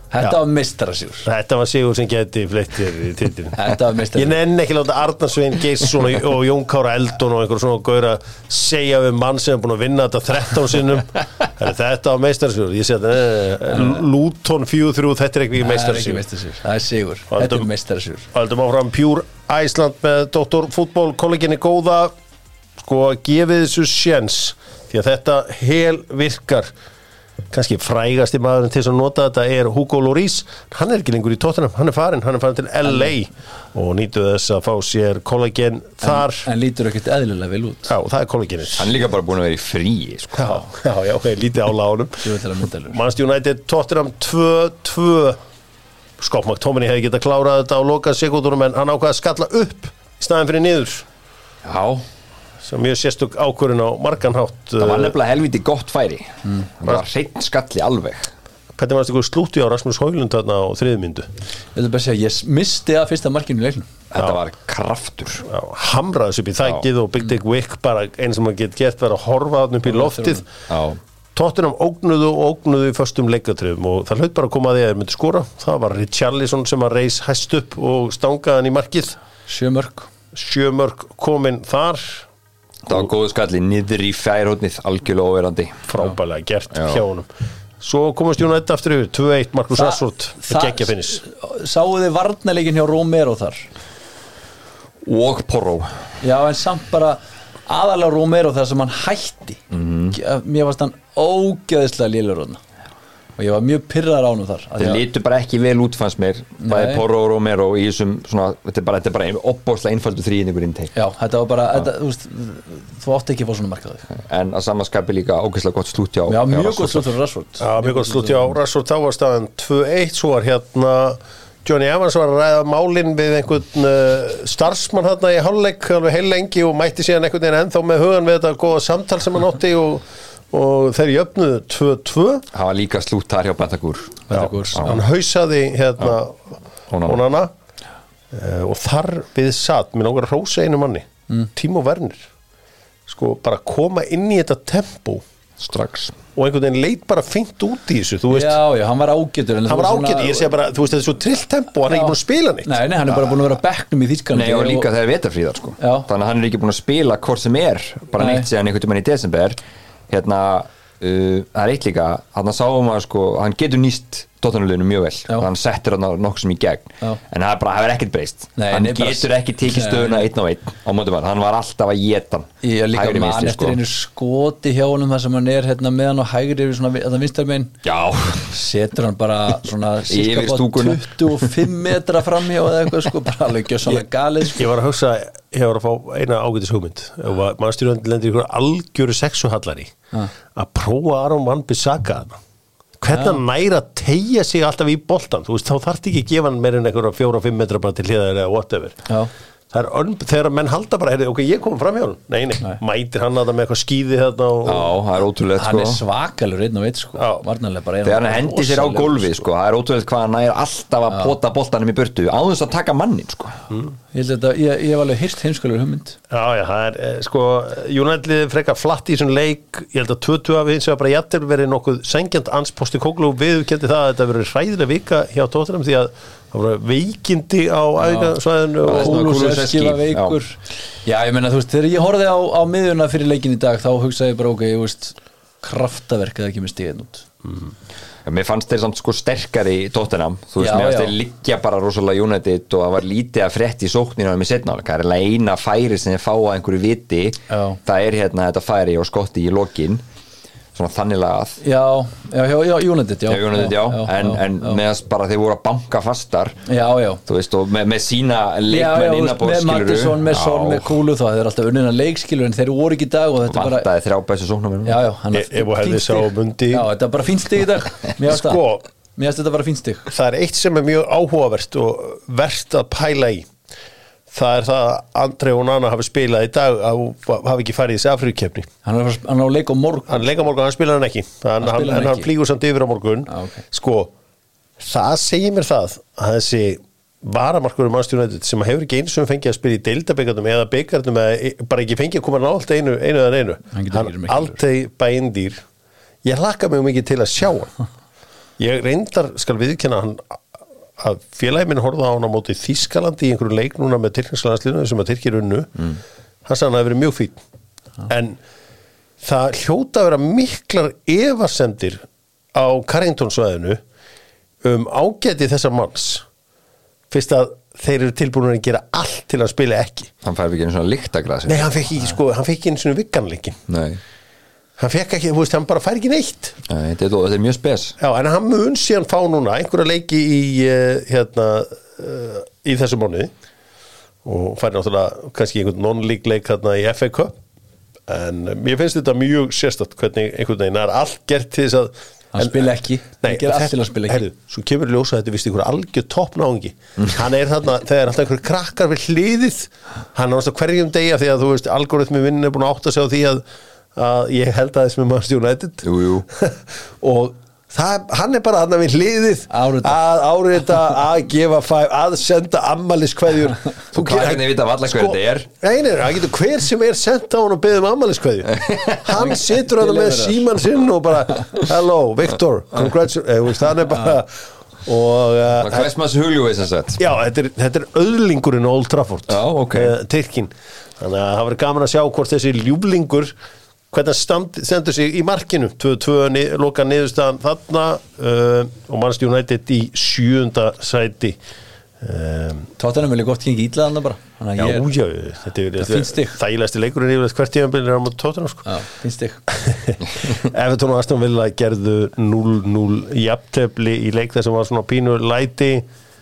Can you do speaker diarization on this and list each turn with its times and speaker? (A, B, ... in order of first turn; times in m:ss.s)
0:00.1-0:01.3 A
0:01.3-0:03.6 B
0:03.6-0:04.4 A
0:04.2-0:16.2 B
0:13.7-0:14.0 A
0:15.6-0:18.3 A
0:17.3-0:17.7 B
0:18.3-0:22.1 B
0:22.8-0:26.7 B
0:27.5-0:36.5 B
0:32.8-0:33.1 A
0:36.0-0:37.9 A
0:37.9-0:38.9 B
0:38.8-0:40.6 C
0:40.4-0:42.3 B
0:42.2-0:43.0 A
0:42.9-0:45.4 B
0:46.2-0:51.1 B
0:51.6-0:52.1 C
0:52.6-0:55.2 B
0:54.8-0:58.3 C
0:58.8-1:01.3 B
1:01.8-1:03.9 A
1:04.1-1:05.5 C
1:05.5-1:10.5 B
1:09.9-1:10.4 A
1:10.7-1:11.0 C
1:11.4-1:19.2 B
1:19.5-1:20.1 A
1:20.3-1:22.3 B
1:22.9-1:25.8 C
1:25.9-1:27.3 B
1:26.7-1:27.0 C
1:27.8-1:31.2 B
1:29.7-1:33.7 A
1:35.0-1:35.9 C
1:36.2-1:39.6 A
1:39.7-1:40.2 C
1:40.1-1:42.6 A
1:43.4-1:45.0 A
1:44.8-1:50.9 C
1:46.6-1:47.0 A
1:51.0-1:54.1 A
1:54.1-1:57.1 C
1:56.3-1:58.5 A
1:57.6-2:12.4 B
2:12.5-2:15.0 C
2:14.3-2:14.9 A
2:14.4-2:17.5 B
2:16.9-2:17.2 C
2:18.3-2:22.2 B
2:23.1-2:25.2 B
2:25.6-2:26.2 C
2:26.4-2:28.6 B
2:28.3-2:30.5 A
2:29.7-2:32.7 B
2:31.9-2:34.9 A
2:34.3-2:39.6 C
2:35.8-2:36.1 A
2:38.2-2:38.5 A
2:40.1-2:53.8 C
2:48.6-2:50.3 A
2:52.6-2:57.8 A
2:57.8-2:58.5 C
2:58.5-3:04.6 A
3:00.1-3:01.5 C
3:04.6-3:09.9 B
3:10.6-3:12.4 B
3:13.0-3:19.0 B
3:13.1-3:13.4 A
3:19.7-3:24.9 B
3:24.6-3:26.0 C
3:25.6-3:29.4 A
3:27.2-3:27.4 B
3:28.0-3:33.6 C
3:34.1-3:36.2 A
3:36.3-3:49.2 B
3:48.0-3:57.3 A
3:48.8-3:50.4 C
3:58.2-4:10.0 C
4:00.6-4:01.2 A
4:07.5-4:07.8 A
4:10.8-4:11.6 C
4:11.6-4:14.8 A
4:13.3-4:16.6 C
4:16.7-4:17.2 A
4:17.3-4:21.0 C
4:18.7-4:23.9 A
4:23.4-4:25.0 C
4:24.8-4:28.6 A
4:25.3-4:26.9 B
4:28.3-4:28.8 B
4:29.2-4:30.1 A
4:30.1-4:33.5 B
4:34.3-4:38.7 B
4:38.8-4:40.2 A
4:40.1-4:44.1 B
4:41.6-4:42.3 A
4:43.3-4:43.6 A
4:44.8-4:55.6 B
4:53.7-4:54.6 A
4:56.2-4:57.8 B
4:58.6-5:00.4 B
5:01.0-5:05.7 B
5:06.5-5:07.4 B
5:08.1-5:08.4 B
5:09.2-5:12.0 B
5:12.5-5:13.8 B
5:14.6-5:16.2 B
5:17.1-5:20.1 B
5:20.2-5:21.8 C
5:21.5-5:23.6 B
5:23.7-5:24.0 C
5:24.8-5:26.6 B
5:26.7-5:28.0 C
5:28.0-5:33.3 B
5:34.2-5:37.4 B
5:38.1-5:53.4 B
5:42.3-5:44.2 A
5:54.0-6:15.9 B
5:55.8-5:56.3 C
5:59.5-6:00.0 A
6:03.9-6:05.5 C
6:08.6-6:09.0 C
6:09.2-6:10.4 A
6:15.6-6:17.0 C
6:17.0-6:23.3 B
6:19.3-6:19.9 C
6:23.9-6:31.4 B
6:32.0-6:32.7 B
6:32.8-6:34.9 A
6:34.6-6:38.7 B
6:35.8-6:36.4 A
6:38.7-6:39.4 A
6:39.5-6:45.8 B